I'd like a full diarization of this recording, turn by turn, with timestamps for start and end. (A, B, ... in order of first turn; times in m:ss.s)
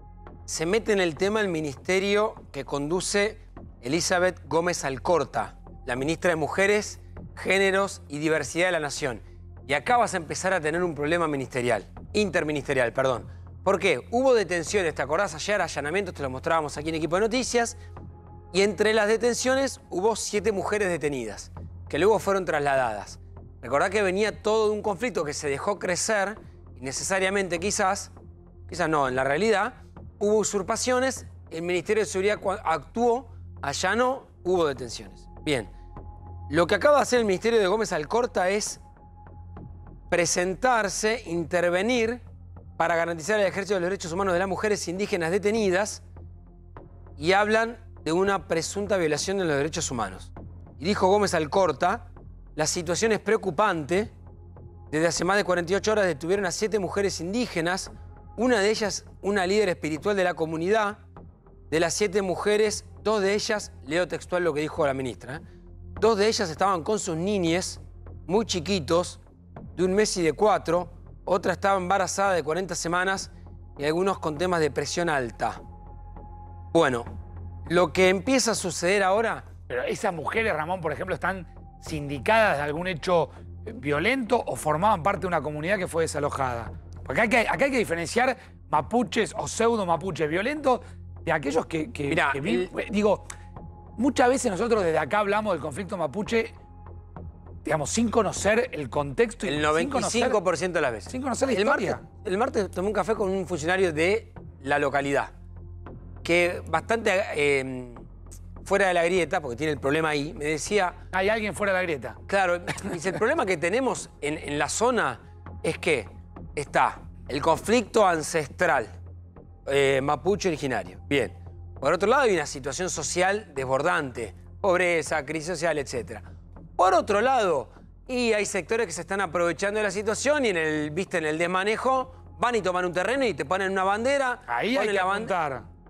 0:00.5-0:17.8 A
0:18.5-0:28.1 A
0:28.7-0:35.7 A
0:36.5-0:38.8 A
0:40.1-0:42.2 A
0:42.8-0:46.0 A
0:47.2-0:54.1 A
0:54.9-1:01.0 A
1:01.7-1:05.4 A
1:06.0-1:09.2 A
1:09.8-1:15.6 A
1:16.7-1:17.1 A
1:17.7-1:19.4 A
1:19.7-1:33.2 B
1:32.1-1:32.7 A
1:34.0-1:36.6 B
1:37.6-1:40.4 B
1:39.4-1:45.3 A
1:41.1-1:42.0 B
1:46.2-1:48.0 A
1:48.6-1:51.0 A
1:51.1-1:52.2 B
1:52.3-1:58.9 A
1:59.7-2:06.2 A
2:06.8-2:15.3 A
2:14.5-2:15.6 B